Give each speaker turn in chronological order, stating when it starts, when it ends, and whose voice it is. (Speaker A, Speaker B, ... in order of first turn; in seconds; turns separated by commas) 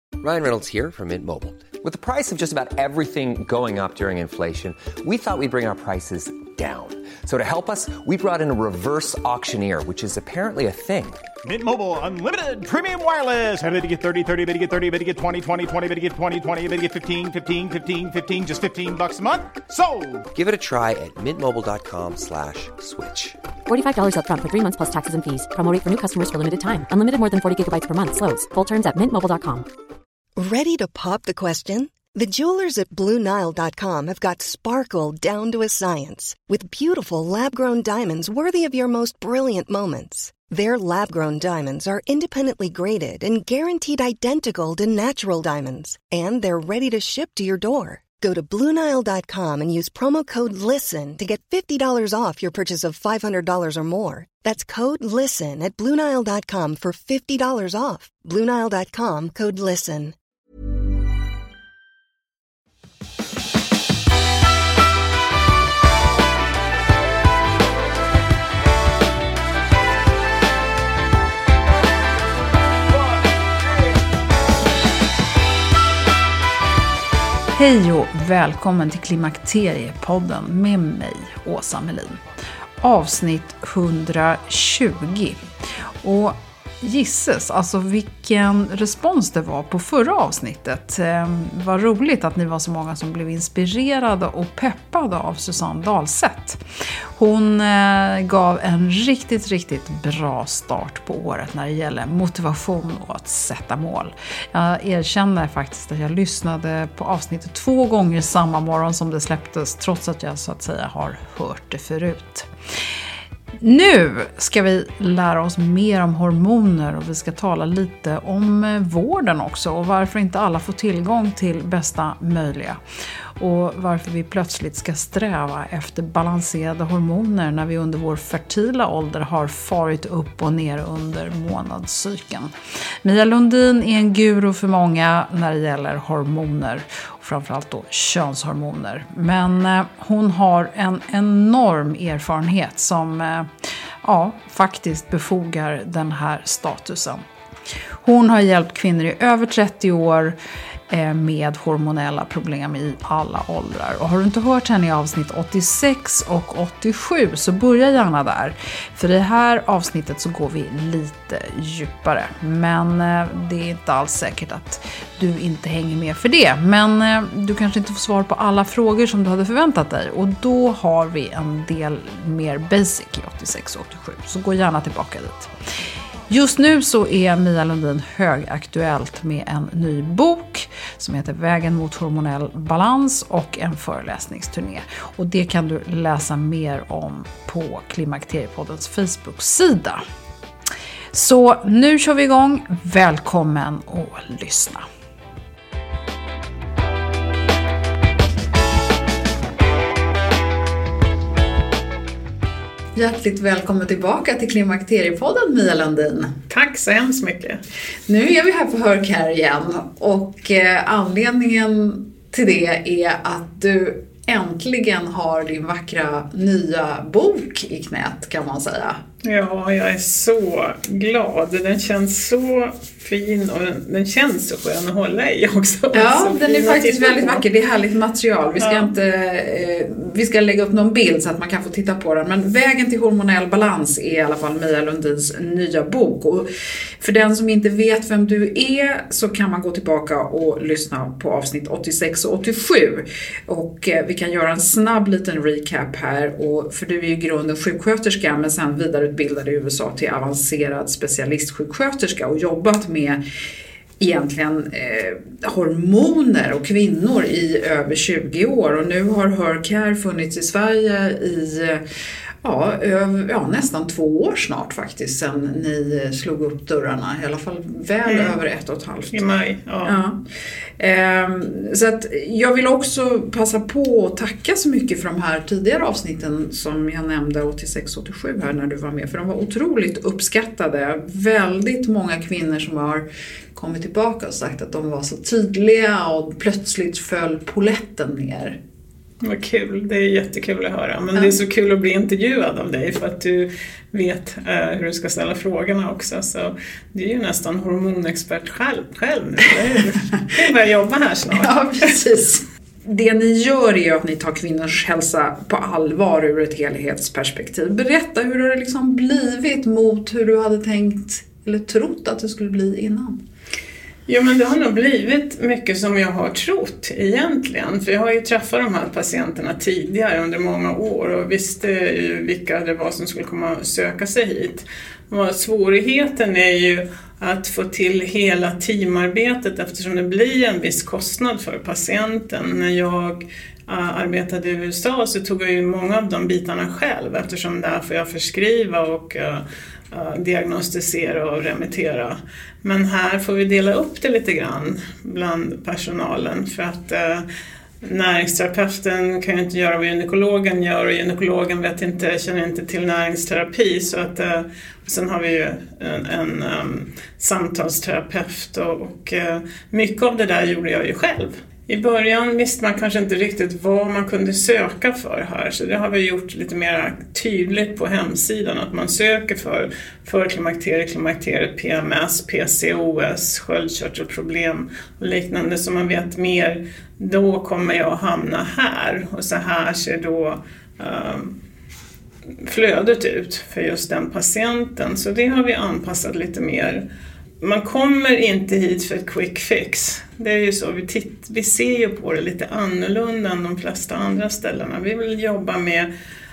Speaker A: 0.2-11.2, Speaker B: 11.4-20.3, Speaker A: 20.3-23.4, Speaker C: 23.6-29.7, Speaker D: 30.4-60.1, Speaker E: 77.5-82.2, Speaker E: 82.8-85.4, Speaker E: 86.0-96.6, Speaker E: 97.1-112.5, Speaker E: 113.6-122.8, Speaker E: 123.4-143.5, Speaker E: 144.0-147.2, Speaker E: 148.0-150.4, Speaker E: 150.9-175.5, Speaker E: 176.3-190.0, Speaker E: 191.1-194.8, Speaker E: 202.9-206.3, Speaker F: 206.5-207.6, Speaker E: 208.1-219.0, Speaker F: 219.2-227.4, Speaker E: 225.9-236.5, Speaker F: 228.6-228.9, Speaker E: 237.0-253.2, Speaker E: 254.0-261.8, Speaker E: 262.4-269.2, Speaker F: 268.1-268.4, Speaker F: 269.1-270.0, Speaker E: 269.8-270.2, Speaker E: 270.8-288.6, Speaker F: 289.2-302.0, Speaker E: 301.3-313.2, Speaker F: 314.1-347.2, Speaker F: 347.8-381.3, Speaker F: 382.4-386.8, Speaker F: 387.4-395.9